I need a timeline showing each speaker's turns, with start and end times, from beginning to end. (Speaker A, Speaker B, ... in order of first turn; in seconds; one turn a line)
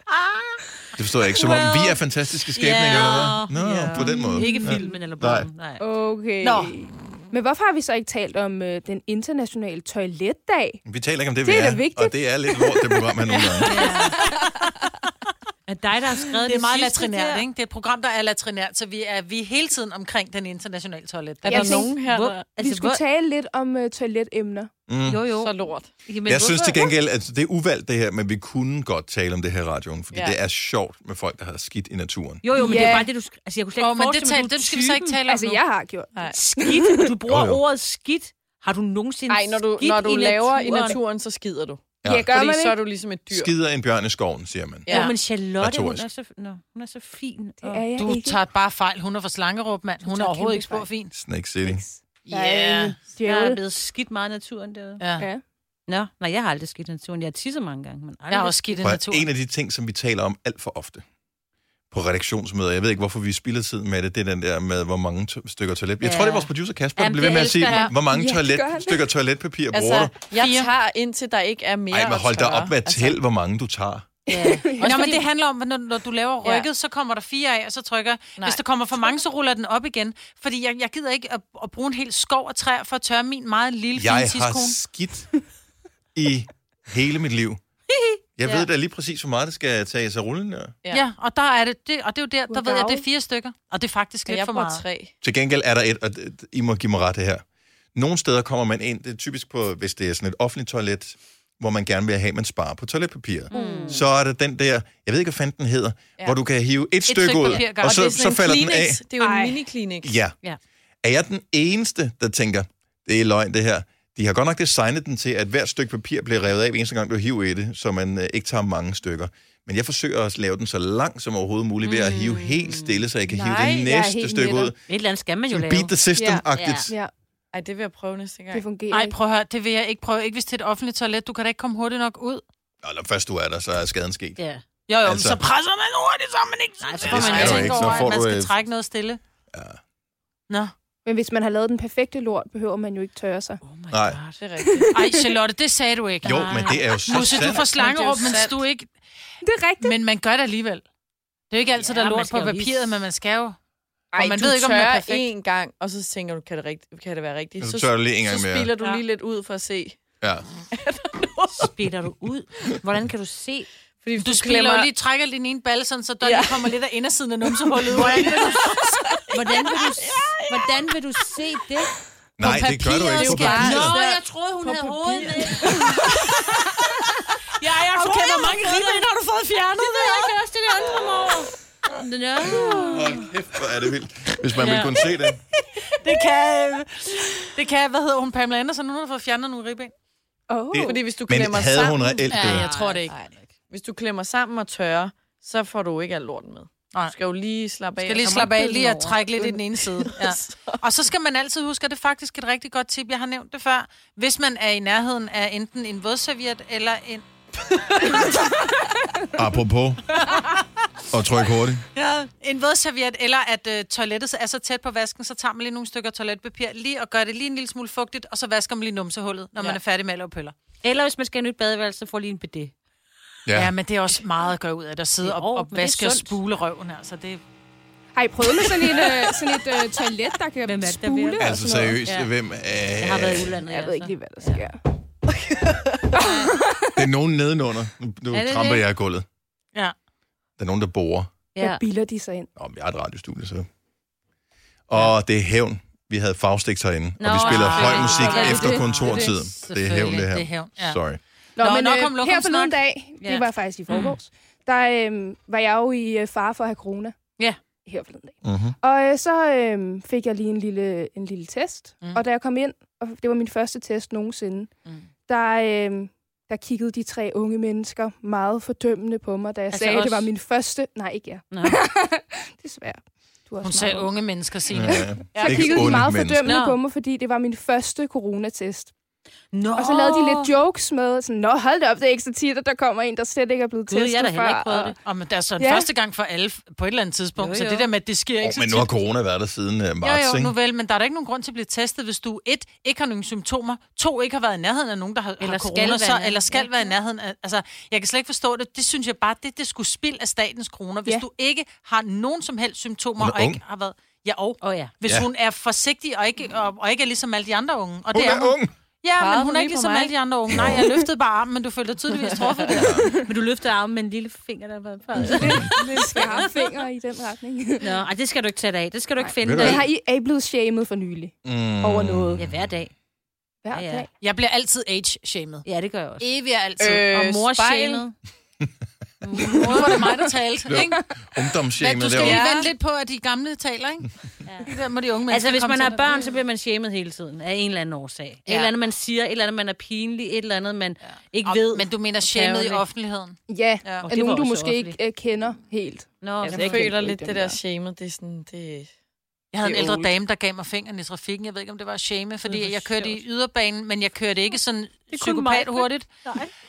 Speaker A: 1.0-5.5
Speaker B: 1.4-2.0
Speaker B: 2.5-5.8
Speaker C: 4.0-4.9
Speaker D: 4.4-4.9
Speaker C: 5.8-10.8
Speaker D: 6.4-6.7
Speaker A: 10.9-13.8
Speaker C: 11.4-13.1
Speaker D: 13.3-14.4
Speaker B: 13.7-14.2
Speaker B: 15.7-17.4
Speaker D: 16.4-21.8
Speaker E: 21.4-22.5
Speaker C: 21.5-21.9
Speaker B: 22.0-23.0
Speaker C: 22.6-24.7
Speaker A: 24.9-25.2
Speaker B: 25.0-26.9
Speaker E: 25.4-26.0
Speaker A: 26.2-32.5
Speaker E: 30.1-30.4
Speaker B: 32.4-35.2
Speaker C: 32.5-33.1
Speaker D: 33.8-35.6
Speaker C: 35.3-37.0
Speaker E: 36.1-36.4
Speaker B: 36.3-41.0
Speaker A: 37.3-37.6
Speaker E: 39.3-43.5
Speaker A: 42.0-42.3
Speaker C: 42.0-42.8
Speaker A: 43.3-45.0
Speaker E: 44.9-45.2
Speaker B: 44.9-47.9
Speaker A: 45.6-46.1
Speaker C: 47.6-48.4
Speaker D: 48.0-51.1
Speaker C: 50.0-50.9
Speaker A: 51.1-51.8
Speaker C: 51.6-53.6
Speaker D: 52.3-53.0
Speaker B: 52.8-55.0
Speaker D: 55.0-55.3
Speaker B: 55.9-58.9
Speaker D: 58.3-59.3
Speaker A: 58.8-61.0
Speaker A: 61.9-70.2
Speaker B: 66.0-67.9
Speaker D: 67.6-67.9
Speaker C: 67.8-69.1
Speaker E: 69.7-73.2
Speaker D: 70.3-70.7
Speaker A: 71.9-74.1
Speaker B: 74.3-75.2
Speaker C: 74.3-75.2
Speaker D: 74.8-84.8
Speaker A: 84.0-85.4
Speaker A: 86.2-87.6
Speaker A: 88.4-90.8
Speaker D: 90.9-94.8
Speaker C: 92.5-93.0
Speaker E: 94.3-95.1
Speaker A: 95.2-97.4
Speaker A: 98.0-109.0
Speaker B: 103.5-104.1
Speaker E: 103.5-103.9
Speaker D: 107.1-108.2
Speaker E: 107.6-110.2
Speaker C: 109.2-109.6
Speaker A: 110.0-110.4
Speaker A: 111.0-124.8
Speaker B: 121.8-123.0
Speaker C: 123.3-124.7
Speaker B: 124.9-125.9
Speaker A: 125.5-126.9
Speaker C: 126.2-127.1
Speaker B: 126.5-126.9
Speaker E: 127.5-128.6
Speaker C: 128.5-129.2
Speaker D: 128.9-132.4
Speaker A: 132.8-134.4
Speaker B: 134.4-134.6
Speaker D: 134.9-139.2
Speaker A: 135.0-135.4
Speaker B: 136.8-138.1
Speaker A: 137.0-138.5
Speaker A: 139.5-139.8
Speaker C: 141.1-143.6
Speaker B: 143.6-144.4
Speaker A: 143.9-144.2
Speaker E: 144.4-144.9
Speaker C: 144.6-145.3
Speaker D: 144.9-148.9
Speaker B: 146.2-147.5
Speaker A: 146.2-147.7
Speaker E: 147.6-148.6
Speaker C: 149.4-150.0
Speaker D: 149.8-150.8
Speaker D: 151.5-153.6
Speaker B: 151.8-152.9
Speaker E: 154.1-160.0
Speaker D: 154.2-155.3
Speaker A: 157.6-158.7
Speaker A: 160.2-160.5
Speaker E: 160.7-161.7
Speaker B: 161.5-163.7
Speaker E: 164.0-164.9
Speaker D: 164.2-169.3
Speaker E: 166.2-166.8
Speaker E: 167.5-170.8
Speaker B: 169.3-171.9
Speaker A: 172.4-174.0
Speaker D: 172.4-173.8
Speaker E: 173.1-176.0
Speaker B: 173.2-179.1
Speaker D: 177.6-180.3
Speaker B: 179.8-183.3
Speaker A: 182.9-185.4
Speaker B: 184.5-185.3
Speaker D: 185.9-189.9
Speaker C: 190.5-191.0
Speaker A: 190.7-192.7
Speaker E: 190.9-192.3
Speaker D: 192.3-193.1
Speaker B: 192.3-193.2
Speaker E: 193.1-198.5
Speaker D: 198.0-207.2
Speaker B: 198.2-199.4
Speaker E: 200.0-200.8
Speaker A: 209.4-210.2
Speaker D: 210.2-210.6
Speaker A: 211.1-211.8
Speaker D: 211.9-220.6
Speaker B: 220.8-222.7
Speaker A: 223.5-223.7
Speaker D: 223.6-227.4
Speaker B: 225.2-226.4
Speaker C: 228.1-232.0
Speaker B: 230.6-232.3
Speaker A: 231.4-233.6
Speaker B: 233.0-234.6
Speaker C: 233.6-234.8
Speaker E: 235.3-236.0
Speaker C: 236.1-236.9
Speaker A: 236.9-239.2
Speaker B: 238.3-238.9
Speaker A: 240.6-241.3
Speaker B: 241.6-241.8
Speaker C: 241.6-242.5
Speaker A: 242.6-243.7
Speaker A: 244.9-251.2
Speaker B: 247.2-249.3
Speaker D: 247.3-251.0
Speaker C: 248.4-248.8
Speaker C: 251.6-257.2
Speaker D: 251.6-252.8
Speaker B: 253.2-253.5
Speaker D: 253.9-254.2
Speaker C: 257.9-264.7
Speaker A: 258.4-258.8
Speaker C: 265.3-274.1
Speaker D: 269.7-270.3
Speaker B: 271.5-271.8
Speaker D: 273.6-276.0
Speaker A: 274.7-276.5
Speaker C: 274.9-278.9
Speaker B: 276.4-276.8
Speaker B: 279.5-280.5
Speaker C: 279.8-285.0
Speaker B: 283.9-285.0
Speaker D: 285.0-289.0
Speaker C: 285.6-285.9
Speaker B: 287.4-287.9
Speaker A: 288.4-290.6
Speaker D: 290.0-312.8
Speaker B: 295.4-296.8
Speaker A: 303.2-303.6
Speaker B: 304.6-304.9
Speaker A: 308.1-308.7
Speaker E: 309.2-310.1
Speaker A: 310.5-310.9
Speaker C: 310.7-311.0
Speaker E: 312.3-312.8
Speaker A: 312.7-313.1
Speaker B: 312.8-316.7
Speaker C: 312.9-313.3
Speaker A: 315.2-315.7
Speaker C: 315.2-318.0
Speaker B: 317.8-319.8
Speaker C: 319.2-322.4
Speaker A: 319.4-319.9
Speaker A: 321.4-322.7
Speaker B: 322.4-322.9
Speaker C: 323.6-324.1
Speaker B: 323.7-324.1
Speaker D: 324.2-325.6
Speaker B: 325.7-326.3
Speaker D: 326.2-327.1
Speaker E: 326.8-328.1
Speaker B: 327.1-328.1
Speaker B: 329.2-330.0
Speaker D: 329.5-331.0
Speaker A: 330.7-332.4
Speaker D: 331.8-336.3
Speaker E: 332.2-332.7
Speaker B: 335.3-342.9
Speaker D: 338.5-338.7
Speaker D: 341.0-344.1
Speaker C: 343.5-347.6
Speaker B: 344.0-344.9
Speaker B: 346.2-346.9
Speaker E: 346.4-348.9
Speaker D: 349.5-356.1
Speaker E: 349.6-350.2
Speaker B: 352.4-353.2
Speaker B: 355.1-356.5